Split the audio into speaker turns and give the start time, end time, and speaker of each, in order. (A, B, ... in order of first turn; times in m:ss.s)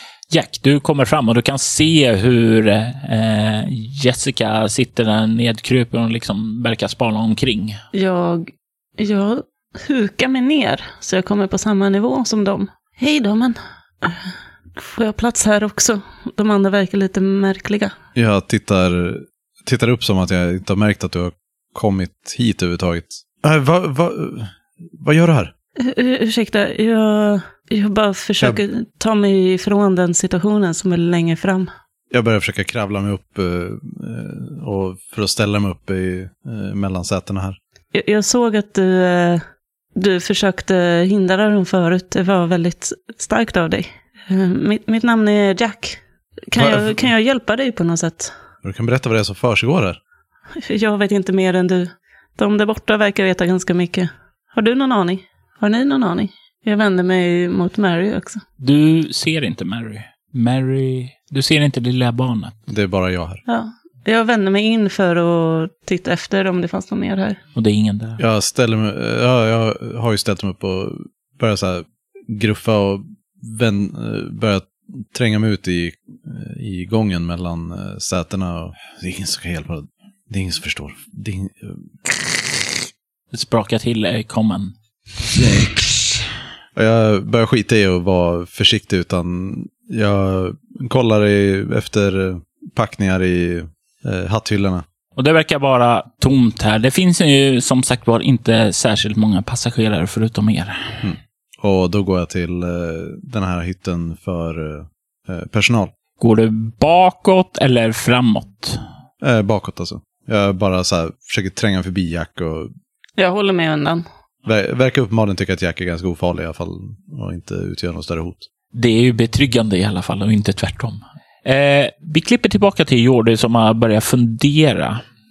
0:00.3-0:07.8 A
0:07.9-0:17.9 B
0:18.2-0:25.5 C
0:25.8-0:31.7 B
0:32.1-0:37.6 C
0:37.9-0:39.4 B
0:40.0-0:46.0 B
0:46.5-0:48.3 B
0:46.6-0:47.0 C
0:48.6-0:50.0 C
0:50.6-0:58.4 B
0:58.6-1:02.6 A
1:02.7-1:03.4 C
1:03.5-1:07.4 B
1:07.6-1:08.2 A
1:08.2-1:21.9 C
1:23.3-1:26.2 A
1:26.8-1:34.8 C
1:35.2-1:41.1 A
1:41.0-1:45.9 C
1:46.2-1:48.8 A
1:49.2-1:52.7 C
1:53.2-1:54.0 B
1:54.4-1:58.4 C
1:58.7-2:05.0 A